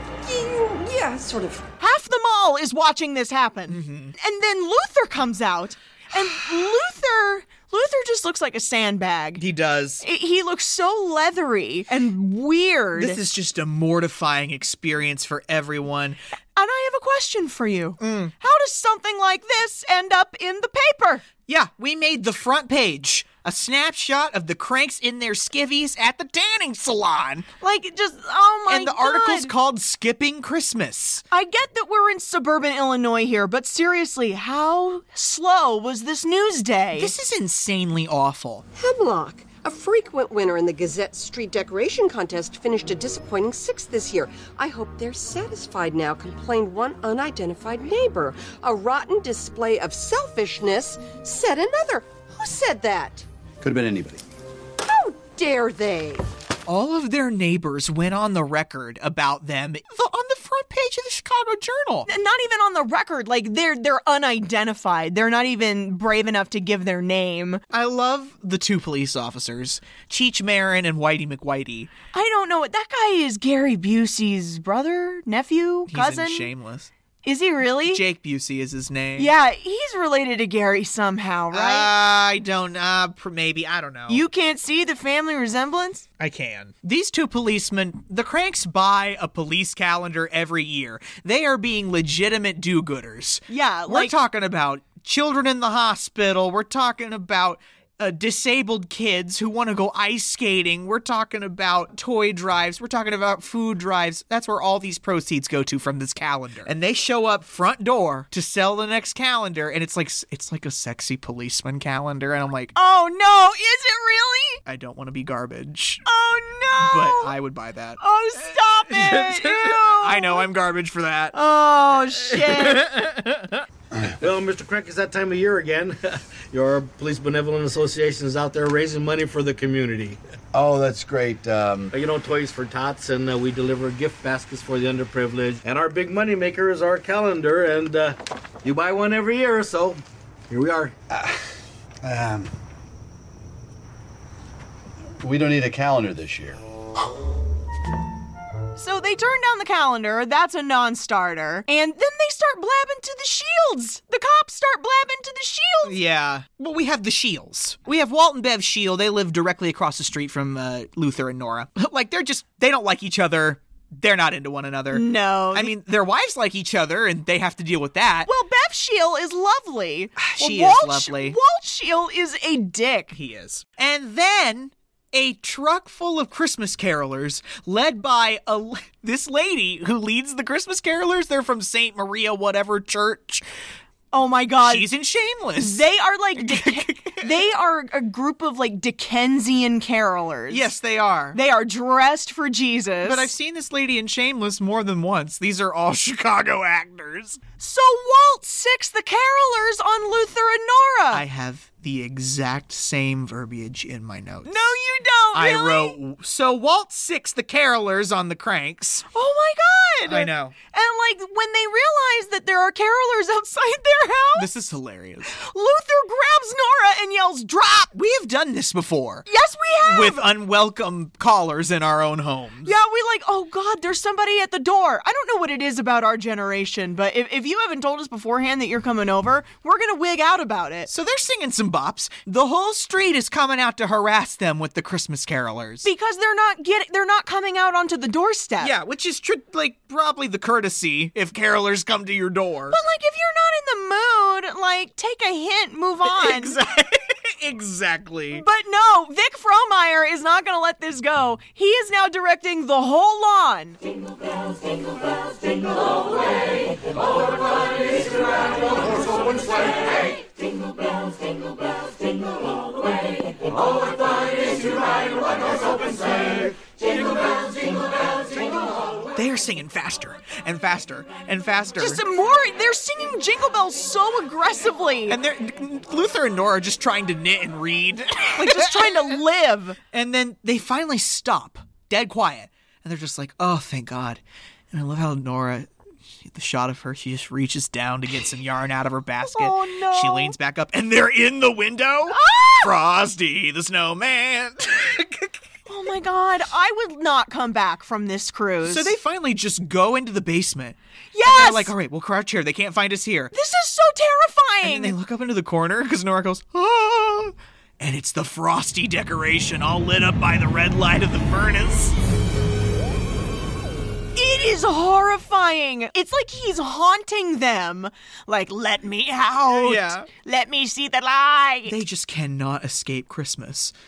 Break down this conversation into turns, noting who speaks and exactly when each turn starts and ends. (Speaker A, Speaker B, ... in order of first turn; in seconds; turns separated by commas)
Speaker A: 0.2-1.6, Speaker B: 1.8-9.4, Speaker C: 3.7-4.1, Speaker C: 9.4-10.0, Speaker B: 10.0-13.2, Speaker C: 12.9-16.2, Speaker B: 16.6-21.2, Speaker C: 18.0-18.3, Speaker C: 21.5-27.5, Speaker B: 27.6-29.5, Speaker C: 28.7-31.2, Speaker B: 31.3-37.1, Speaker C: 36.9-38.6, Speaker A: 38.8-53.2, Speaker D: 53.6-54.2, Speaker A: 54.8-56.3, Speaker C: 56.6-62.1, Speaker B: 62.1-67.6, Speaker C: 67.7-71.9, Speaker B: 72.1-76.5, Speaker C: 75.9-76.9, Speaker B: 77.2-78.0, Speaker C: 77.8-79.3, Speaker B: 79.2-81.9, Speaker C: 81.5-84.2, Speaker B: 84.1-86.0, Speaker C: 86.2-112.7, Speaker B: 93.5-94.1, Speaker B: 112.8-114.6, Speaker C: 114.7-116.0, Speaker B: 116.0-117.3, Speaker C: 116.8-121.3, Speaker B: 118.0-120.5, Speaker B: 121.3-122.9, Speaker C: 122.3-123.5, Speaker E: 124.2-130.2, Speaker D: 130.5-131.9, Speaker E: 131.9-140.9, Speaker D: 141.1-141.4, Speaker D: 142.0-142.5, Speaker D: 145.2-146.6, Speaker B: 148.8-156.0, Speaker C: 155.8-168.3, Speaker B: 164.9-165.7, Speaker B: 168.2-173.1, Speaker C: 170.2-171.3, Speaker C: 173.1-183.4, Speaker B: 184.1-184.9, Speaker C: 184.6-185.8, Speaker B: 185.6-190.7, Speaker C: 186.3-187.3, Speaker C: 190.5-191.4, Speaker B: 191.3-193.3, Speaker C: 193.0-197.4, Speaker B: 197.6-201.2, Speaker C: 201.1-204.7, Speaker B: 204.4-206.0, Speaker C: 205.3-209.1, Speaker B: 209.1-214.5, Speaker C: 210.1-210.5, Speaker C: 214.3-215.3, Speaker B: 215.3-217.9, Speaker C: 217.9-219.3, Speaker B: 219.3-220.2, Speaker C: 219.8-222.7, Speaker B: 222.6-230.9, Speaker C: 230.9-235.9, Speaker B: 235.8-238.7, Speaker C: 238.6-242.8, Speaker B: 242.7-246.6, Speaker C: 246.1-248.4, Speaker B: 248.3-253.8, Speaker C: 269.1-272.0, Speaker B: 271.8-275.2, Speaker C: 275.1-279.1, Speaker B: 278.4-279.8, Speaker C: 279.9-284.2, Speaker C: 284.7-285.7, Speaker C: 286.3-295.3, Speaker B: 289.2-290.3, Speaker B: 292.1-292.6, Speaker B: 295.7-298.9, Speaker C: 298.6-303.3, Speaker B: 301.1-301.7, Speaker B: 303.3-304.9, Speaker C: 304.6-311.9, Speaker B: 314.1-321.8, Speaker C: 319.4-320.1, Speaker C: 321.6-323.7